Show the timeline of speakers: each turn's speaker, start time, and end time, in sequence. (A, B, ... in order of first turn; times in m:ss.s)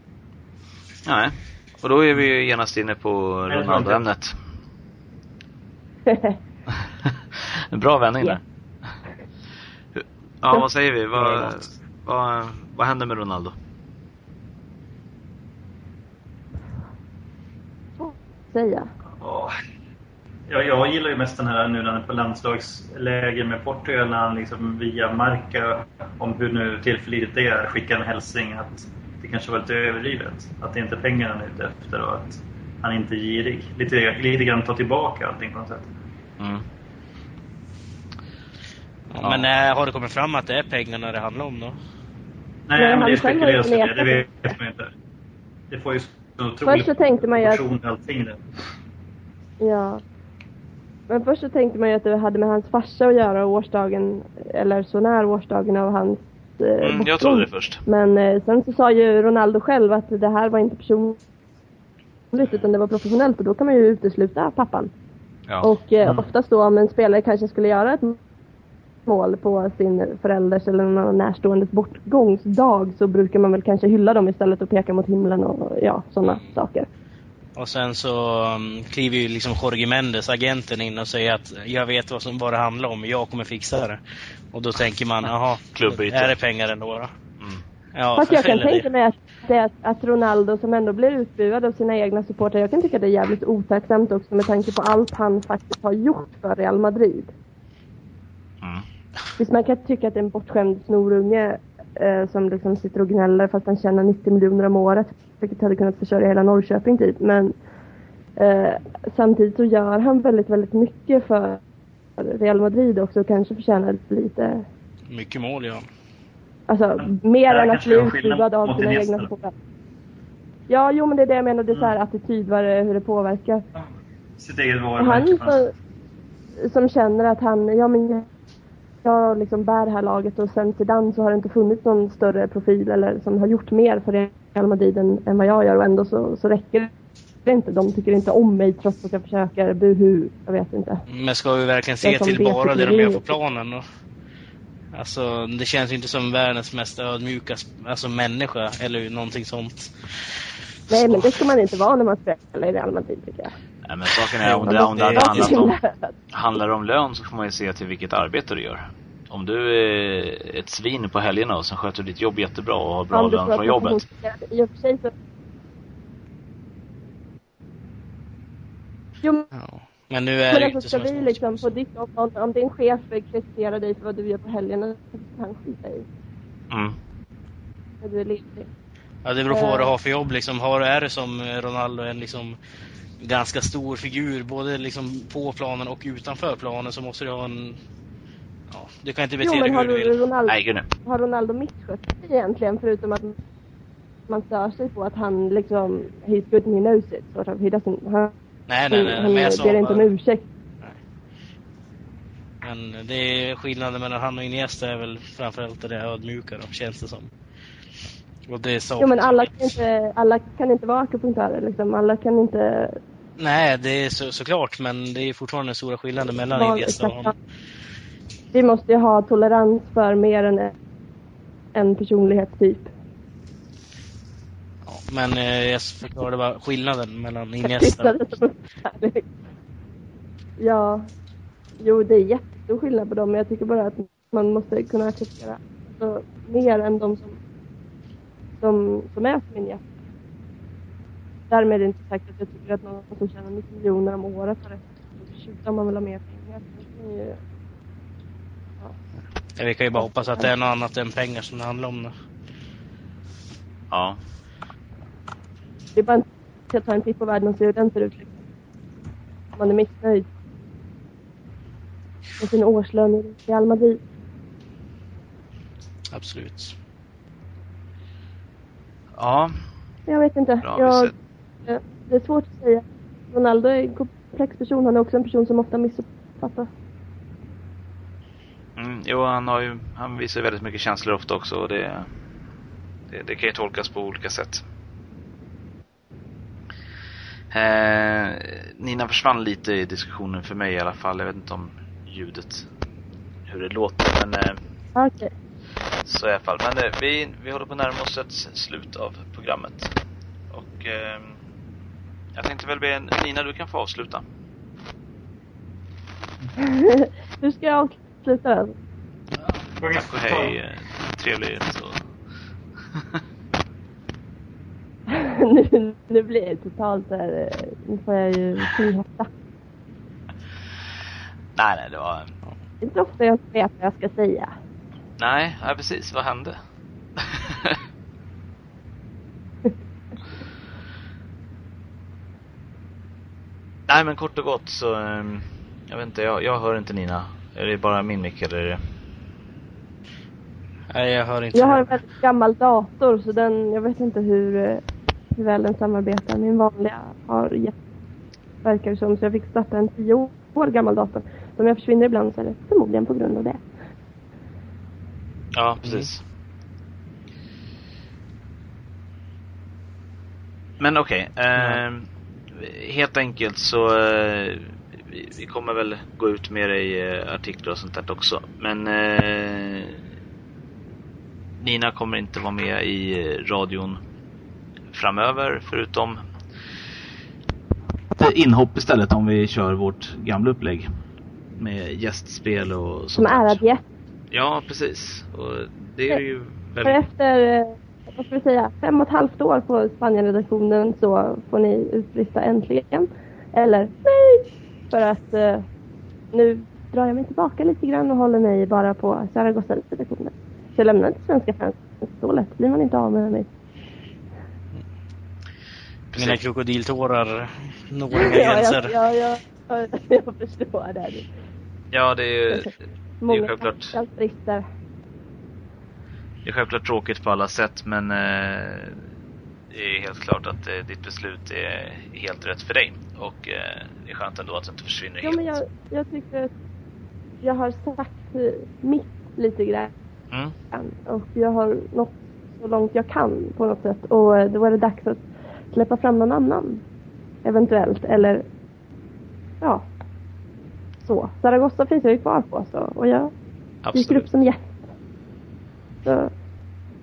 0:01.0-0:04.4 A
0:03.5-0:04.0 B
0:06.1-0:06.4 C
0:07.0-0:08.9 A
0:09.9-0:13.6 A
0:18.0-0:18.9 C
0:19.2-0:19.5 B
0:20.5-0:35.9 B
0:36.4-0:36.6 A
0:39.1-0:41.8 D
0:39.2-0:39.5 A
0:42.7-0:44.9 B
0:42.8-0:44.5 C
0:45.7-0:48.4 B
0:46.6-0:47.6 C
0:49.6-0:50.0 C
0:51.1-1:01.2 C
0:56.8-0:57.8 A
1:02.3-1:04.9 C
1:05.6-1:08.2 C
1:09.1-1:16.9 C
1:16.2-1:16.5 D
1:17.6-1:24.0 D
1:24.5-1:27.1 D
1:25.7-1:26.4 A
1:27.4-1:27.6 A
1:27.9-1:28.9 D
1:28.2-1:37.3 C
1:39.4-1:47.5 C
1:48.4-1:51.6 C
1:52.2-1:54.6 C
1:55.1-1:55.9 D
1:56.7-1:59.5 C
1:57.0-1:59.3 B
2:00.7-2:03.6 C
2:01.7-2:02.0 B
2:03.7-2:05.7 B
2:05.0-2:05.7 C
2:06.6-2:08.3 C
2:09.0-2:16.9 C
2:17.4-2:21.0 C
2:21.1-2:23.8 D
2:22.0-2:23.3 C
2:24.9-2:30.4 D
2:30.9-2:33.5 C
2:30.9-2:31.3 D
2:33.8-2:35.8 A
2:34.4-2:35.6 D
2:34.7-2:36.1 C
2:36.3-2:44.0 A
2:43.1-2:45.1 C
2:49.5-2:51.7 D
2:50.5-2:56.0 C
2:56.7-2:57.0 A
2:58.0-2:58.7 C
2:59.2-3:02.6 D
2:59.5-2:59.9 C
3:03.2-3:07.8 D
3:08.7-3:10.2 D
3:09.4-3:13.4 C
3:10.5-3:10.9 A
3:14.3-3:18.3 C
3:18.7-3:20.1 D
3:18.9-3:20.4 C
3:22.6-3:27.3 D
3:28.5-3:29.7 D
3:29.0-3:33.0 C
3:33.4-3:37.3 D
3:36.5-3:37.3 C
3:38.5-3:40.7 C
3:41.7-3:42.9 C
3:44.8-3:48.2 D
3:47.6-3:49.3 C
3:50.6-3:51.1 C
3:51.8-3:57.4 C
3:58.6-3:59.8 C
4:01.5-4:07.4 C
4:09.6-4:12.1 D
4:09.9-4:10.5 C
4:13.9-4:14.2 A
4:16.0-4:18.3 C
4:19.6-4:20.3 C
4:22.4-4:24.0 C
4:26.1-4:26.7 D
4:29.1-4:29.6 A
4:30.1-4:31.1 C
4:30.6-4:31.1 A
4:31.6-4:36.7 C
4:38.8-4:42.1 A
4:43.1-4:44.6 A
4:47.5-4:52.7 A
4:53.4-4:54.6 A
4:55.0-4:55.3 C
4:56.0-4:59.9 A
5:00.5-5:01.4 A
5:02.3-5:04.2 A
5:06.6-5:08.7 C
5:09.8-5:10.5 B
5:09.9-5:12.1 A
5:12.9-5:13.2 A
5:15.1-5:19.3 C
5:21.5-5:22.4 A
5:22.8-5:24.5 C
5:25.2-5:26.6 A
5:27.2-5:27.8 A
5:33.9-5:38.9 A
5:40.9-5:41.9 D
5:41.5-5:47.7 C
5:48.6-5:53.6 C
5:55.5-5:56.2 A
6:00.8-6:10.0 A
6:11.6-6:14.0 A
6:14.9-6:16.2 A
6:18.2-6:20.9 A
6:21.5-6:23.6 A
6:23.2-6:23.8 C
6:24.3-6:27.0 A
6:26.8-6:35.6 C
6:36.3-6:43.5 C
6:46.1-6:46.4 A
6:46.2-6:48.9 D
6:48.1-6:51.3 C
6:51.9-6:54.0 A
6:52.5-6:54.6 C
6:56.4-6:59.1 A
6:59.7-7:05.6 A
7:05.2-7:06.5 C
7:07.4-7:09.9 C
7:10.7-7:16.8 C
7:17.4-7:18.4 C
7:19.6-7:19.9 C
7:21.0-7:23.3 C
7:23.8-7:24.3 A
7:23.9-7:24.8 C
7:26.0-7:26.3 C